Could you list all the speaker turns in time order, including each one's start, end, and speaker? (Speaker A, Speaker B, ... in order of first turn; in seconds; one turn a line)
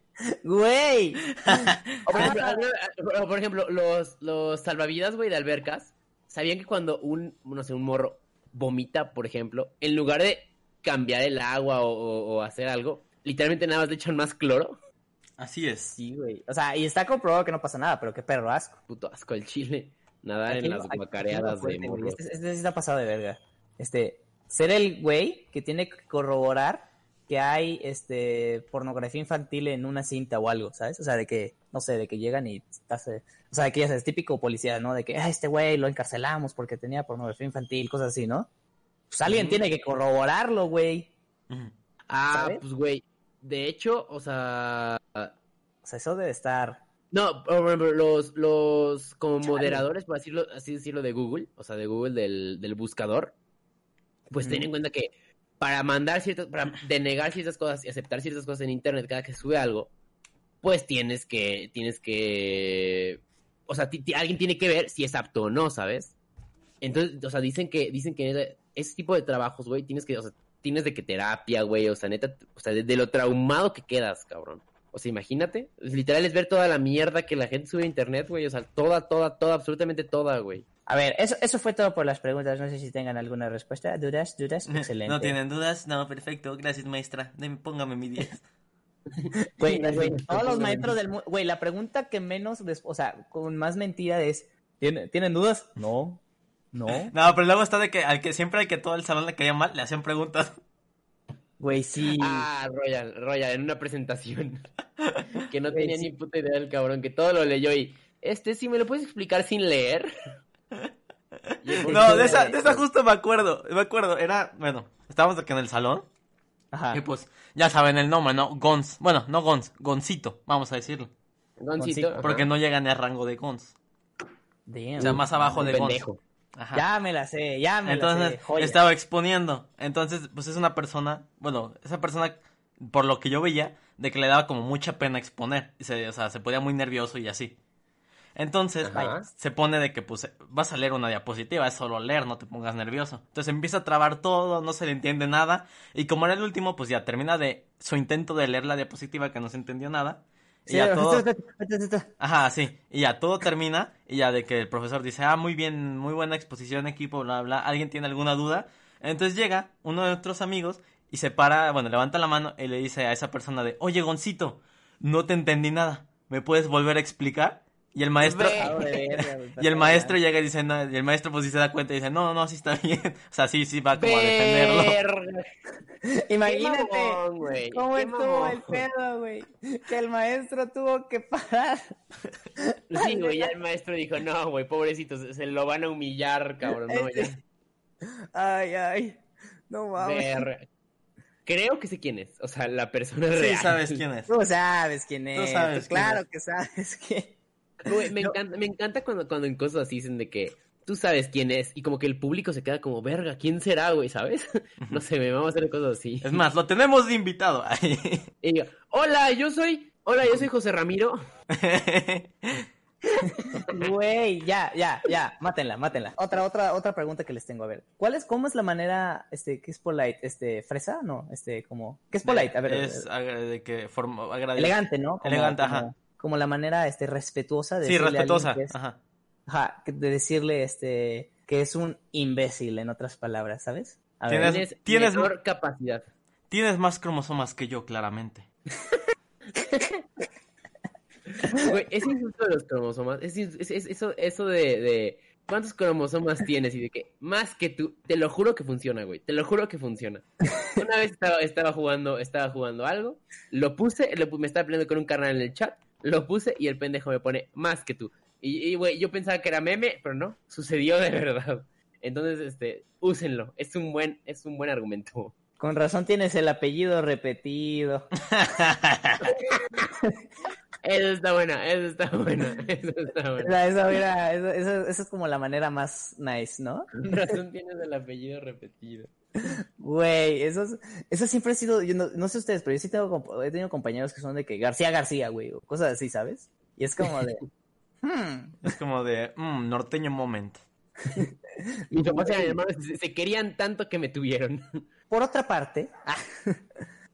Speaker A: 0.4-2.6
Speaker B: 1.4-2.3
Speaker C: 2.1-14.8
Speaker B: 15.4-16.0
Speaker A: 15.9-18.8
Speaker C: 18.9-22.2
Speaker A: 20.5-38.5
Speaker A: 39.1-41.1
Speaker C: 39.3-39.6
Speaker C: 42.1-45.3
Speaker A: 42.3-42.6
Speaker A: 45.8-46.8
Speaker C: 47.1-53.4
Speaker A: 49.5-49.9
Speaker C: 54.3-59.9
Speaker A: 54.4-54.7
Speaker C: 60.6-66.1
Speaker C: 66.8-80.7
Speaker A: 80.9-85.4
Speaker B: 84.7-88.5
Speaker C: 89.2-90.9
Speaker A: 89.6-96.2
Speaker A: 96.7-97.1
Speaker B: 97.1-100.6
Speaker A: 101.6-102.5
Speaker C: 102.2-104.6
Speaker C: 105.5-110.1
Speaker A: 105.7-106.1
Speaker C: 111.6-112.8
Speaker B: 111.8-116.0
Speaker A: 111.8-112.8
Speaker A: 116.7-117.0
Speaker B: 116.9-121.1
Speaker C: 121.6-122.5
Speaker A: 121.8-122.4
Speaker B: 122.2-123.7
Speaker A: 124.7-125.8
Speaker C: 125.0-126.2
Speaker B: 125.0-126.0
Speaker B: 126.6-126.8
Speaker A: 126.7-128.8
Speaker B: 127.9-137.6
Speaker B: 138.4-151.3
Speaker C: 138.8-139.3
Speaker A: 150.7-152.1
Speaker B: 152.2-169.0
Speaker C: 168.2-168.9
Speaker A: 168.5-170.2
Speaker B: 169.6-175.0
Speaker C: 174.0-175.4
Speaker A: 176.1-181.9
Speaker C: 176.4-178.8
Speaker A: 182.6-183.5
Speaker C: 182.9-187.4
Speaker A: 186.9-187.3
Speaker A: 188.1-190.5
Speaker C: 190.0-190.7
Speaker C: 191.5-194.0
Speaker B: 193.3-194.3
Speaker A: 194.3-197.3
Speaker B: 195.3-196.2
Speaker C: 197.8-206.4
Speaker A: 197.9-198.3
Speaker B: 206.2-208.3
Speaker C: 208.4-211.2
Speaker B: 211.5-212.7
Speaker C: 213.2-213.9
Speaker A: 213.6-223.1
Speaker B: 222.2-225.9
Speaker A: 224.6-228.7
Speaker B: 227.8-229.0
Speaker A: 229.5-234.6
Speaker B: 234.3-235.3
Speaker C: 234.4-236.1
Speaker B: 236.5-238.5
Speaker C: 239.6-240.0
Speaker C: 241.4-265.3
Speaker A: 265.6-268.1
Speaker B: 268.3-269.2
Speaker C: 269.2-269.9
Speaker C: 270.8-273.5
Speaker A: 273.4-277.3
Speaker C: 277.0-279.1
Speaker A: 279.4-287.4
Speaker A: 288.0-288.7
Speaker B: 288.6-290.6
Speaker A: 291.9-292.6
Speaker C: 291.9-294.8
Speaker A: 295.1-296.6